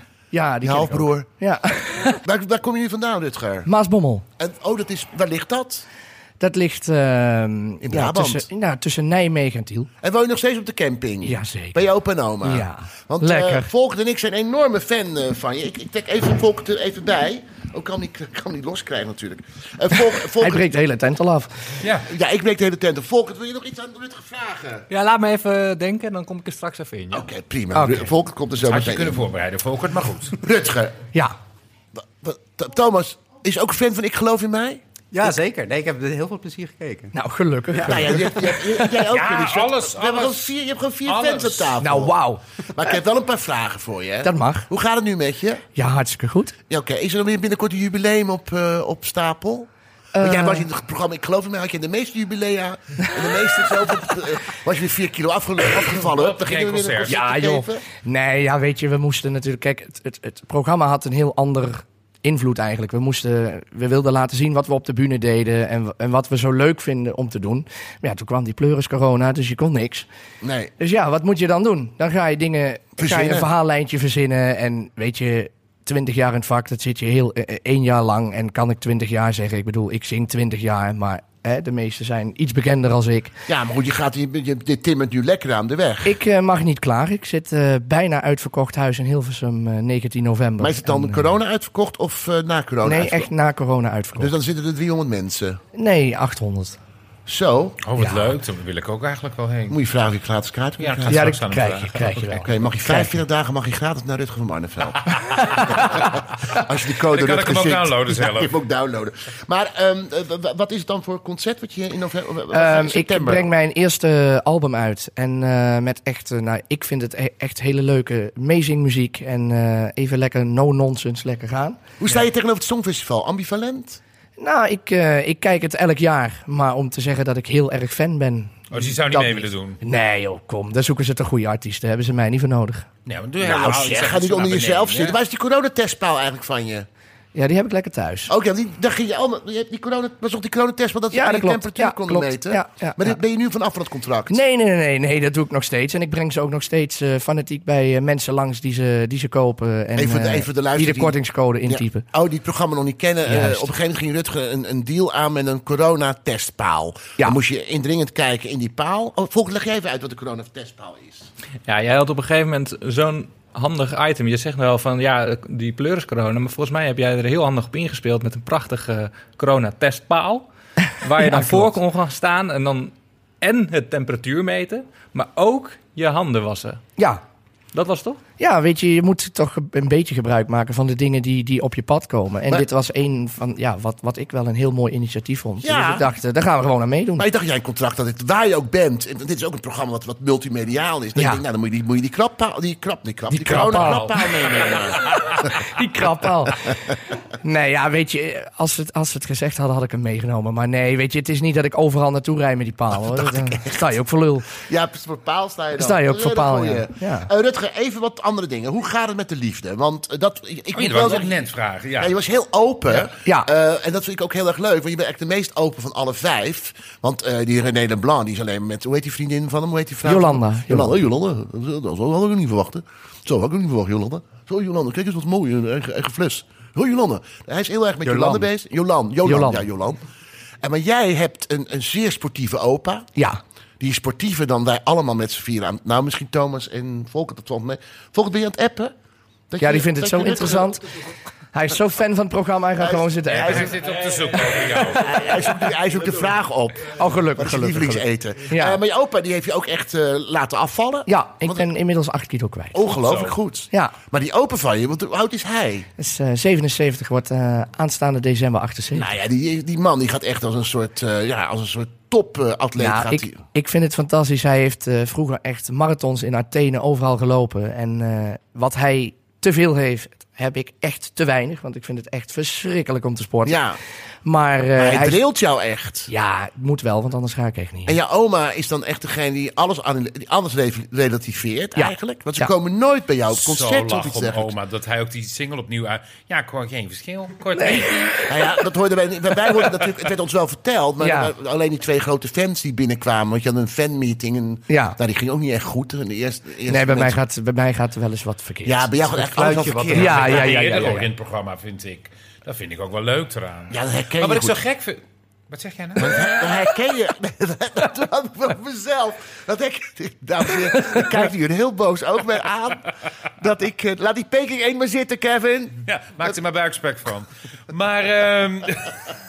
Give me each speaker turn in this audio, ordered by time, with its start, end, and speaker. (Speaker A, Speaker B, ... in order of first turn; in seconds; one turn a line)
Speaker A: 0.3-2.2
Speaker B: 0.6-1.3
Speaker B: 2.2-3.7
Speaker A: 3.7-4.2
Speaker B: 4.4-5.8
Speaker A: 6.4-9.9
Speaker B: 7.8-8.5
Speaker B: 10.0-20.7
Speaker A: 11.2-11.8
Speaker A: 12.4-13.7
Speaker A: 20.4-21.5
Speaker C: 21.8-22.1
Speaker B: 22.1-24.9
Speaker D: 24.9-27.3
Speaker B: 27.1-29.2
Speaker A: 27.8-28.0
Speaker C: 28.6-30.4
Speaker B: 30.4-31.0
Speaker B: 32.0-34.8
Speaker E: 35.1-37.1
Speaker A: 37.1-38.4
Speaker B: 37.8-42.2
Speaker C: 38.9-40.5
Speaker C: 41.1-41.8
Speaker A: 41.8-42.4
Speaker B: 42.7-45.6
Speaker A: 44.2-44.7
Speaker A: 45.8-46.5
Speaker B: 46.7-49.7
Speaker A: 50.1-50.7
Speaker B: 50.2-57.8
Speaker C: 56.0-57.2
Speaker A: 57.0-70.1
Speaker B: 70.4-70.7
Speaker A: 70.8-83.3
Speaker B: 73.0-73.5
Speaker B: 83.5-86.2
Speaker A: 86.0-91.3
Speaker B: 90.6-93.3
Speaker A: 92.8-94.3
Speaker B: 94.2-95.6
Speaker A: 95.7-96.8
Speaker B: 97.3-97.8
Speaker C: 97.8-99.8
Speaker A: 98.0-98.3
Speaker B: 99.7-101.2
Speaker C: 100.8-102.5
Speaker A: 101.1-103.2
Speaker B: 102.4-113.5
Speaker C: 105.4-105.6
Speaker C: 107.1-108.5
Speaker A: 112.5-121.8
Speaker B: 122.0-124.0
Speaker A: 124.4-132.9
Speaker C: 128.7-129.8
Speaker C: 133.1-135.2
Speaker B: 133.4-136.9
Speaker A: 137.3-138.3
Speaker B: 138.3-144.4
Speaker A: 141.1-143.2
Speaker A: 144.3-152.1
Speaker B: 150.0-161.3
Speaker A: 153.3-153.7
Speaker D: 161.7-170.5
Speaker D: 171.0-176.8
Speaker A: 171.2-171.7
Speaker D: 177.7-178.2
Speaker A: 178.4-187.2
Speaker B: 185.6-186.1
Speaker B: 187.2-195.0
Speaker A: 191.2-191.4
Speaker A: 193.3-194.2
Speaker C: 193.5-194.9
Speaker A: 195.8-196.6
Speaker A: 197.4-204.5
Speaker B: 203.1-203.9
Speaker B: 204.5-211.4
Speaker A: 205.8-207.3
Speaker C: 210.7-212.1
Speaker B: 212.0-230.0
Speaker A: 212.9-213.5
Speaker A: 220.0-221.0
Speaker A: 228.0-228.5
Speaker A: 229.2-229.7
Speaker B: 230.6-233.1
Speaker B: 233.8-238.9
Speaker B: 239.5-240.8
Speaker A: 239.6-240.8
Speaker A: 241.5-243.7
Speaker B: 242.8-243.8
Speaker C: 243.3-245.2
Speaker B: 244.8-251.7
Speaker A: 246.9-248.8
Speaker A: 251.1-252.8
Speaker B: 252.7-255.9
Speaker C: 252.9-253.4
Speaker A: 256.0-259.1
Speaker B: 258.9-263.4
Speaker A: 262.8-273.6
Speaker B: 273.4-273.8
Speaker A: 274.2-275.2
Speaker B: 274.8-276.1
Speaker A: 276.1-278.0
Speaker B: 277.9-284.5
Speaker A: 281.8-282.5
Speaker C: 283.4-288.2
Speaker A: 287.6-288.0
Speaker B: 288.3-297.2
Speaker A: 291.0-291.3
Speaker A: 294.7-295.0
Speaker A: 296.7-298.9
Speaker B: 298.6-300.6
Speaker E: 299.3-300.9
Speaker C: 299.6-306.5
Speaker A: 299.9-301.1
Speaker B: 303.7-304.6
Speaker B: 306.0-312.9
Speaker B: 313.4-315.8
Speaker C: 315.9-318.9